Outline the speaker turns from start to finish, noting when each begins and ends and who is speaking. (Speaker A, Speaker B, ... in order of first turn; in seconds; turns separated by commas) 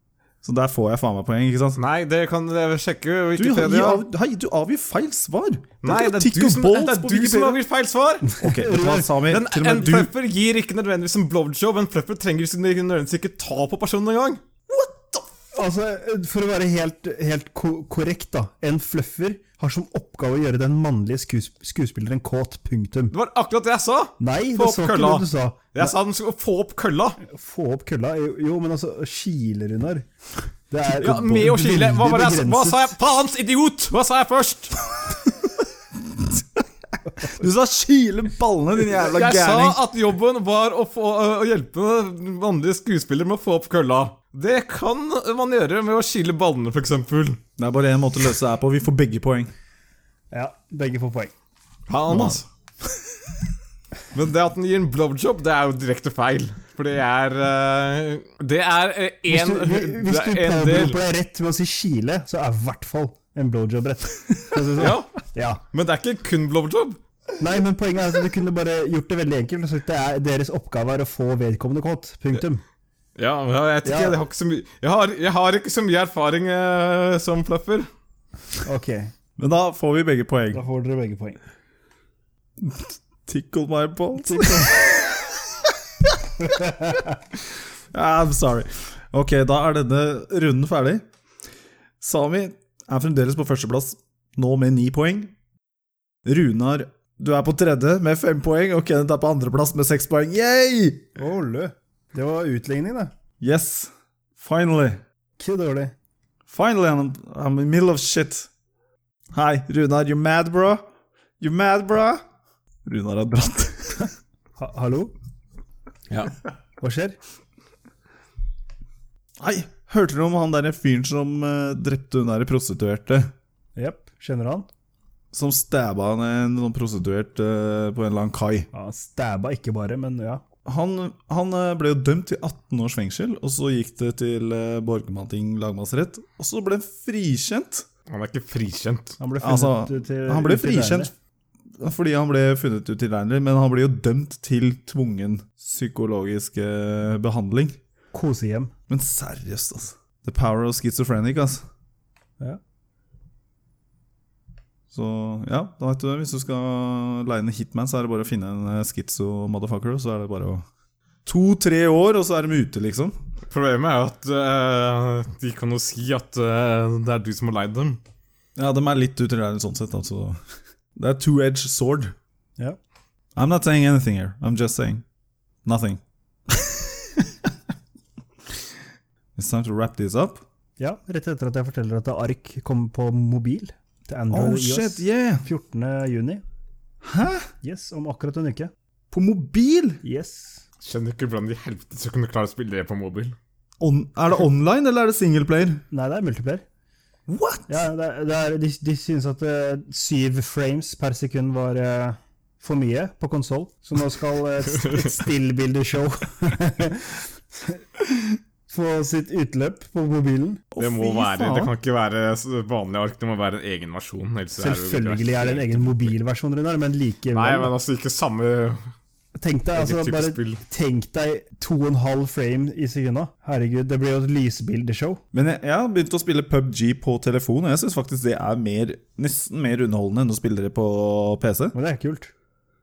Speaker A: 0.4-1.8, Speaker B: 1.8-4.0, Speaker A: 3.4-7.6, Speaker B: 5.8-8.3, Speaker C: 8.3-9.1, Speaker A: 8.4-10.1, Speaker B: 9.3-14.4, Speaker A: 14.7-15.2, Speaker C: 15.5-23.1, Speaker B: 23.1-27.2, Speaker C: 24.2-25.9, Speaker C: 27.2-30.1, Speaker C: 30.7-32.9, Speaker B: 30.9-34.8, Speaker A: 36.1-36.4, Speaker A: 37.2-39.8, Speaker B: 38.9-47.4, Speaker A: 47.6-49.5, Speaker C: 50.3-51.3, Speaker B: 51.9-52.4, Speaker A: 52.1-52.4, Speaker B: 54.1-61.0, Speaker C: 59.3-65.6, Speaker B: 64.8-65.1, Speaker B: 65.7-67.0, Speaker C: 67.4-72.6, Speaker B: 73.2-77.9, Speaker C: 73.8-74.2, Speaker C: 78.6-79.1, Speaker A: 79.4-80.6, Speaker C: 80.5-81.4, Speaker A: 82.6-86.4, Speaker C: 84.2-84.8, Speaker C: 86.6-87.1, Speaker A: 87.9-91.0, Speaker A: 92.0-95.3, Speaker A: 96.2-101.1, Speaker C: 101.2-103.1, Speaker A: 103.4-105.0, Speaker C: 105.4-105.9, Speaker A: 106.5-108.5, Speaker A: 109.3-110.8, Speaker A: 111.4-112.2, Speaker A: 112.8-114.1, Speaker C: 114.6-115.1, Speaker C: 116.8-117.2, Speaker A: 119.4-123.3, Speaker C: 123.8-124.7, Speaker A: 125.3-128.7, Speaker C: 128.7-130.4, Speaker A: 130.6-137.8, Speaker B: 138.1-139.2, Speaker C: 139.2-141.1, Speaker A: 139.4-141.1, Speaker A: 141.8-147.8, Speaker C: 148.1-148.7, Speaker A: 148.9-151.6, Speaker A: 154.9-160.6, Speaker A: 161.2-163.1, Speaker B: 163.5-168.0, Speaker A: 168.6-170.4, Speaker A: 170.9-172.1, Speaker A: 173.3-175.0, Speaker A: 175.6-177.5, Speaker A: 179.3-180.4, Speaker C: 180.8-186.4, Speaker A: 184.3-185.4, Speaker A: 187.0-187.5, Speaker C: 187.6-188.7, Speaker A: 189.1-190.0, Speaker C: 190.0-190.6, Speaker B: 190.8-193.3, Speaker A: 193.8-195.8, Speaker C: 195.9-196.6, Speaker A: 197.3-197.8, Speaker C: 197.7-207.8, Speaker B: 204.7-205.2, Speaker C: 208.7-210.6, Speaker A: 210.7-211.7, Speaker B: 210.8-216.1, Speaker C: 214.6-217.7, Speaker B: 217.3-218.8, Speaker C: 219.4-225.2, Speaker B: 219.7-220.6, Speaker A: 225.3-231.7, Speaker C: 231.7-232.3